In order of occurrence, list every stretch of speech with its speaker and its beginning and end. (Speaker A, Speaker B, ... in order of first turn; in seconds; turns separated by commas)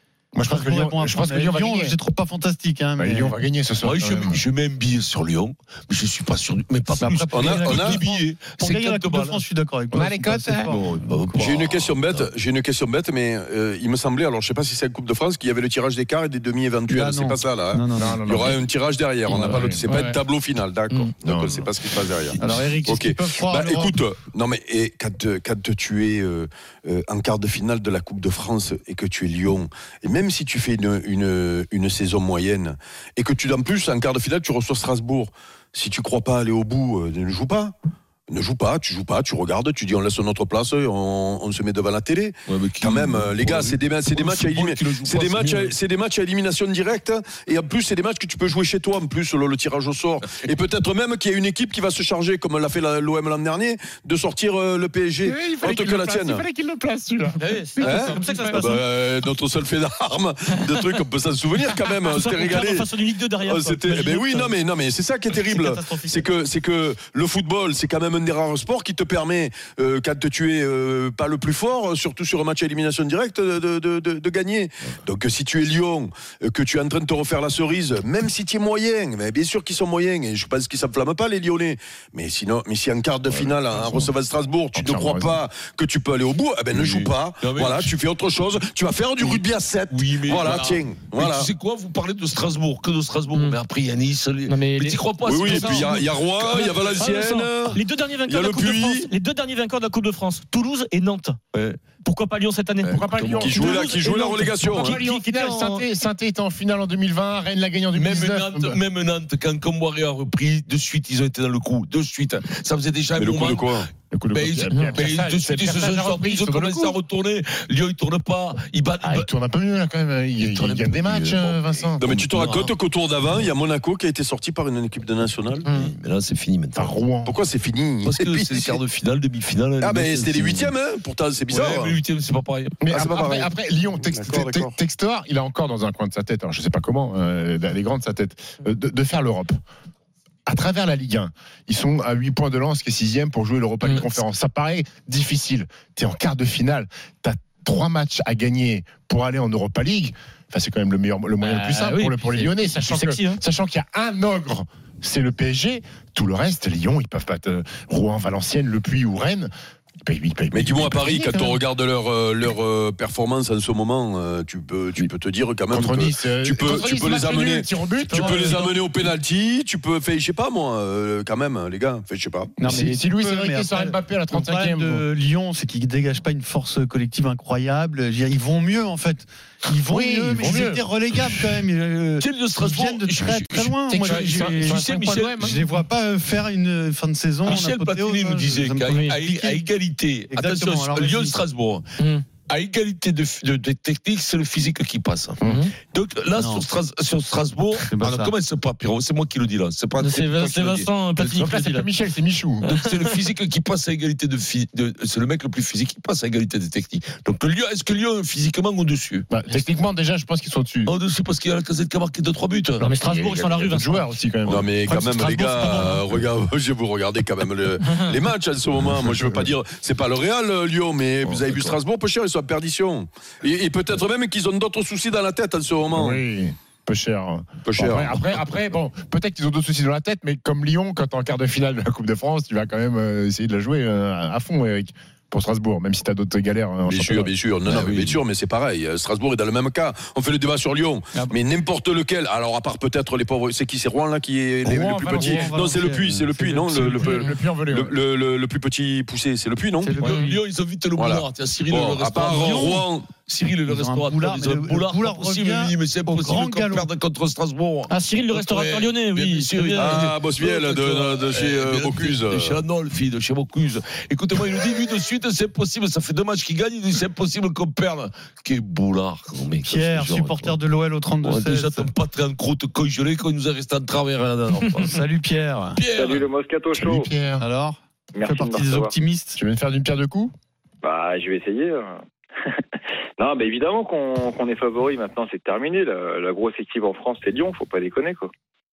Speaker A: 0.3-2.0, Speaker B: 0.4-3.4, Speaker A: 3.0-4.4, Speaker C: 3.8-9.4, Speaker B: 7.0-11.5, Speaker D: 7.3-8.0, Speaker A: 9.9-10.8, Speaker C: 10.8-12.3, Speaker D: 11.3-37.7, Speaker B: 16.9-18.2, Speaker A: 18.0-18.6, Speaker A: 19.3-20.2, Speaker A: 21.2-21.6, Speaker B: 22.4-24.0, Speaker D: 38.3-56.5, Speaker C: 42.5-45.8, Speaker A: 55.2-58.4, Speaker E: 57.4-58.8, Speaker D: 57.8-91.5, Speaker E: 62.0-64.6, Speaker B: 65.4-66.3, Speaker A: 83.3-84.1, Speaker A: 84.7-85.4, Speaker C: 86.7-88.0, Speaker C: 89.2-97.1, Speaker E: 93.3-93.6, Speaker E: 94.5-101.4, Speaker D: 95.2-99.1, Speaker C: 101.5-101.9, Speaker E: 102.0-105.9, Speaker A: 102.8-108.8, Speaker D: 103.4-105.0, Speaker C: 108.0-113.8, Speaker D: 113.2-113.9, Speaker A: 114.1-117.0, Speaker C: 114.3-119.3, Speaker E: 114.7-115.0, Speaker A: 119.0-122.2, Speaker C: 120.4-122.8, Speaker D: 122.0-125.7, Speaker C: 125.7-127.0, Speaker A: 126.8-127.4, Speaker D: 127.2-128.8, Speaker C: 128.0-130.8, Speaker D: 129.8-132.0, Speaker C: 131.5-132.8, Speaker A: 132.8-139.6, Speaker D: 132.9-133.5, Speaker D: 134.1-134.7, Speaker A: 140.5-159.5, Speaker E: 143.9-144.2, Speaker E: 151.4-153.4, Speaker A: 160.1-161.6, Speaker D: 160.5-172.5, Speaker A: 165.7-168.6, Speaker B: 168.1-169.1, Speaker B: 172.6-189.7, Speaker A: 172.6-175.1, Speaker A: 179.9-180.8, Speaker C: 182.2-185.7, Speaker A: 183.9-185.6, Speaker C: 187.4-200.9, Speaker B: 190.3-191.4, Speaker A: 195.4-195.7, Speaker B: 196.3-196.7, Speaker B: 197.9-198.3, Speaker E: 200.0-202.0, Speaker A: 201.2-202.7, Speaker C: 202.7-209.3, Speaker E: 202.7-203.2, Speaker A: 209.3-210.9, Speaker C: 210.9-213.6, Speaker E: 212.8-214.2, Speaker A: 213.0-214.7, Speaker D: 214.5-226.2, Speaker E: 214.8-216.0, Speaker A: 218.8-219.5, Speaker C: 221.3-221.8, Speaker A: 225.9-237.3, Speaker D: 227.7-228.4, Speaker D: 236.8-250.0, Speaker C: 237.7-238.2, Speaker A: 244.6-245.7, Speaker B: 245.1-247.0, Speaker A: 246.6-248.0, Speaker B: 249.8-250.3, Speaker C: 250.0-270.6, Speaker D: 250.9-253.1, Speaker B: 252.3-252.8, Speaker B: 253.7-256.9, Speaker E: 257.9-259.9, Speaker D: 259.7-262.7, Speaker B: 269.6-271.9, Speaker C: 271.2-275.0, Speaker B: 274.8-275.8, Speaker C: 275.8-276.3, Speaker F: 275.9-277.1, Speaker A: 276.7-277.4, Speaker B: 277.4-279.4, Speaker F: 278.1-278.9, Speaker A: 279.4-280.3, Speaker F: 280.8-281.9, Speaker F: 283.2-288.3